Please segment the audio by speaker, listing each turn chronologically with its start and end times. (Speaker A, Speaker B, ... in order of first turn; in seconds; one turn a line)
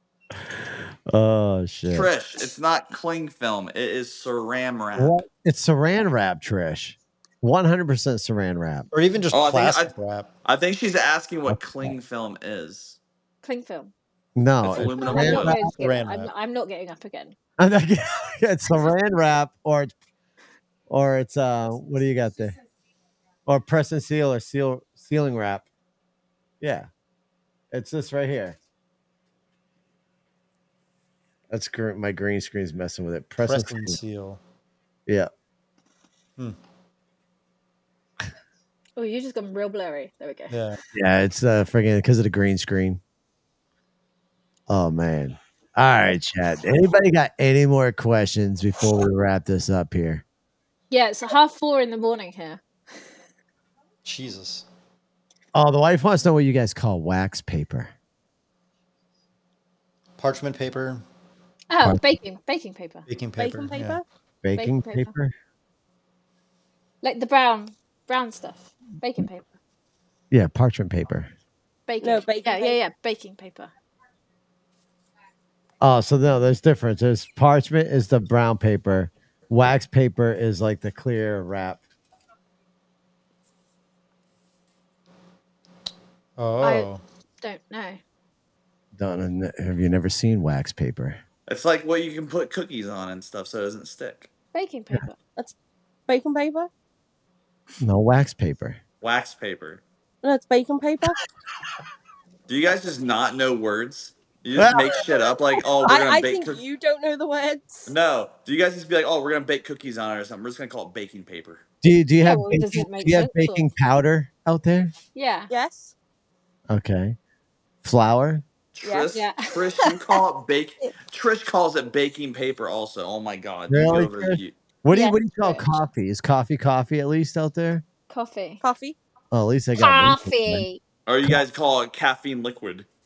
Speaker A: 1.1-2.1
Speaker B: 1.9-5.2
Speaker A: 4.9-8.9
Speaker C: 8.9-10.3
Speaker B: 9.3-13.0
Speaker A: 11.5-11.9
Speaker D: 13.4-13.9
Speaker A: 14.3-15.7
Speaker B: 14.6-15.5
Speaker D: 15.0-17.3
Speaker C: 15.0-16.3
Speaker A: 17.6-19.9
Speaker A: 20.9-22.6
Speaker A: 23.5-25.7
Speaker A: 26.6-26.9
Speaker A: 27.7-28.6
Speaker A: 31.5-34.0
Speaker C: 33.4-34.4
Speaker D: 39.0-40.5
Speaker C: 40.5-40.8
Speaker A: 40.9-43.0
Speaker A: 44.7-50.2
Speaker D: 50.9-52.6
Speaker C: 54.0-54.6
Speaker A: 55.5-57.9
Speaker C: 60.2-61.0
Speaker D: 61.7-63.0
Speaker C: 63.1-64.0
Speaker E: 63.4-64.0
Speaker A: 64.4-65.3
Speaker D: 64.5-65.1
Speaker D: 67.0-69.5
Speaker A: 70.3-71.3
Speaker D: 71.9-73.7
Speaker E: 72.0-72.8
Speaker A: 75.8-81.8
Speaker C: 86.4-87.0
Speaker D: 86.6-86.9
Speaker D: 87.4-88.0
Speaker A: 88.9-91.2
Speaker B: 91.5-94.3
Speaker D: 94.5-95.2
Speaker E: 96.1-96.7
Speaker A: 97.8-98.8
Speaker B: 99.0-99.8
Speaker E: 100.2-101.2
Speaker B: 102.5-106.6
Speaker A: 104.5-105.1
Speaker E: 105.8-107.9
Speaker B: 107.9-111.6
Speaker A: 111.8-114.9
Speaker D: 112.2-113.7
Speaker D: 115.1-115.5
Speaker E: 115.5-115.9
Speaker A: 116.7-117.2
Speaker A: 117.8-118.4
Speaker B: 118.7-124.5
Speaker D: 119.1-120.0
Speaker A: 123.7-127.8
Speaker D: 124.9-125.7
Speaker D: 128.1-128.6
Speaker E: 128.6-128.9
Speaker A: 129.3-130.7
Speaker D: 129.8-130.8
Speaker B: 131.1-132.8